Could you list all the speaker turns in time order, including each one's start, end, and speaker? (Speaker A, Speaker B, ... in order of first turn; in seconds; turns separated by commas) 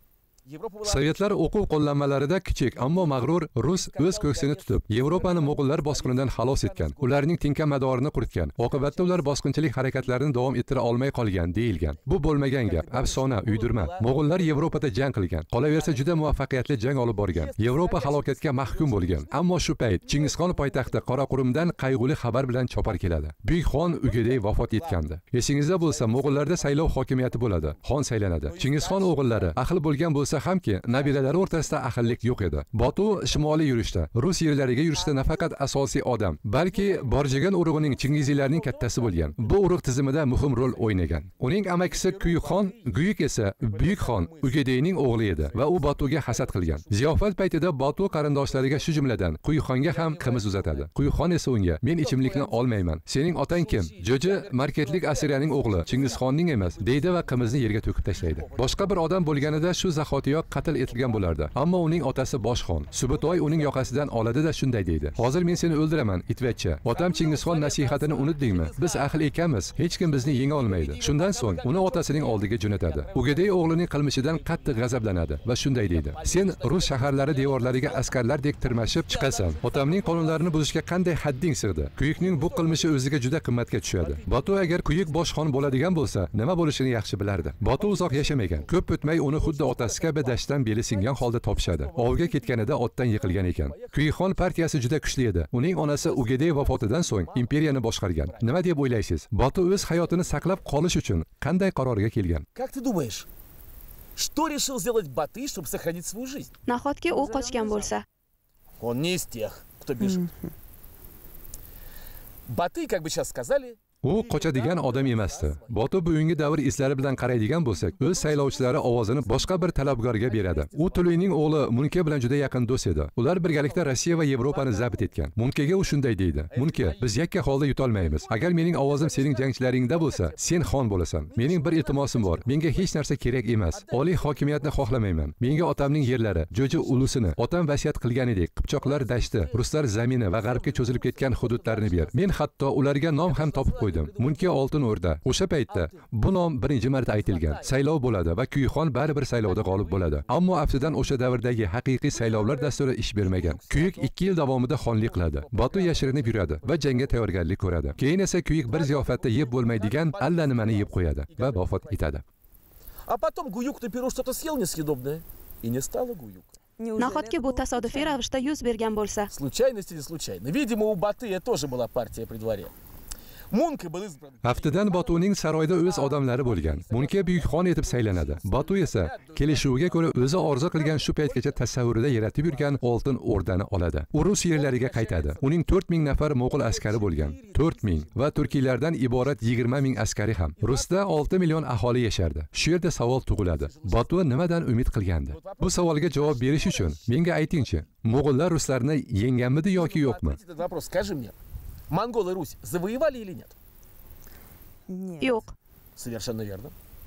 Speaker A: 0.4-1.3, Speaker B: 0.8-102.5, Speaker A: 2.7-7.3, Speaker A: 8.6-10.3, Speaker A: 11.7-14.8, Speaker A: 15.6-16.4, Speaker A: 17.3-21.8, Speaker A: 23.9-25.0, Speaker A: 25.6-29.6, Speaker A: 30.9-33.8, Speaker A: 34.7-35.5, Speaker A: 36.6-41.1, Speaker A: 41.8-43.0, Speaker A: 43.6-47.2, Speaker A: 48.2-49.2, Speaker A: 49.8-50.9, Speaker A: 52.0-52.7, Speaker A: 53.5-59.8, Speaker A: 60.7-61.5, Speaker A: 62.9-64.2, Speaker A: 66.9-69.3, Speaker A: 69.9-80.7, Speaker A: 82.2-83.0, Speaker A: 83.9-86.1, Speaker A: 87.7-94.9, Speaker A: 95.8-98.8, Speaker A: 99.7-100.8, Speaker A: 102.5-103.3, Speaker A: 104.1-106.5, Speaker C: 106.7-108.0, Speaker D: 107.1-107.9, Speaker A: 108.8-110.2, Speaker D: 110.0-110.5, Speaker A: 112.5-117.0, Speaker B: 114.0-162.2, Speaker A: 117.8-121.7, Speaker A: 123.4-127.3, Speaker A: 127.9-130.7, Speaker A: 131.2-133.1, Speaker A: 133.7-137.4, Speaker A: 138.8-142.3, Speaker A: 143.2-144.6, Speaker A: 145.7-146.1, Speaker A: 147.0-147.8, Speaker A: 149.4-151.2, Speaker A: 152.1-158.1, Speaker A: 158.6-162.1, Speaker A: 163.0-166.6, Speaker D: 166.8-168.2, Speaker C: 167.0-169.3, Speaker A: 169.3-172.7, Speaker A: 173.5-183.0, Speaker B: 174.4-200.4, Speaker A: 184.5-189.9, Speaker A: 190.6-191.1, Speaker A: 193.3-194.5, Speaker A: 195.2-197.8, Speaker A: 199.7-201.3, Speaker A: 201.9-203.5, Speaker D: 204.9-205.4, Speaker C: 205.2-205.5, Speaker A: 205.9-206.7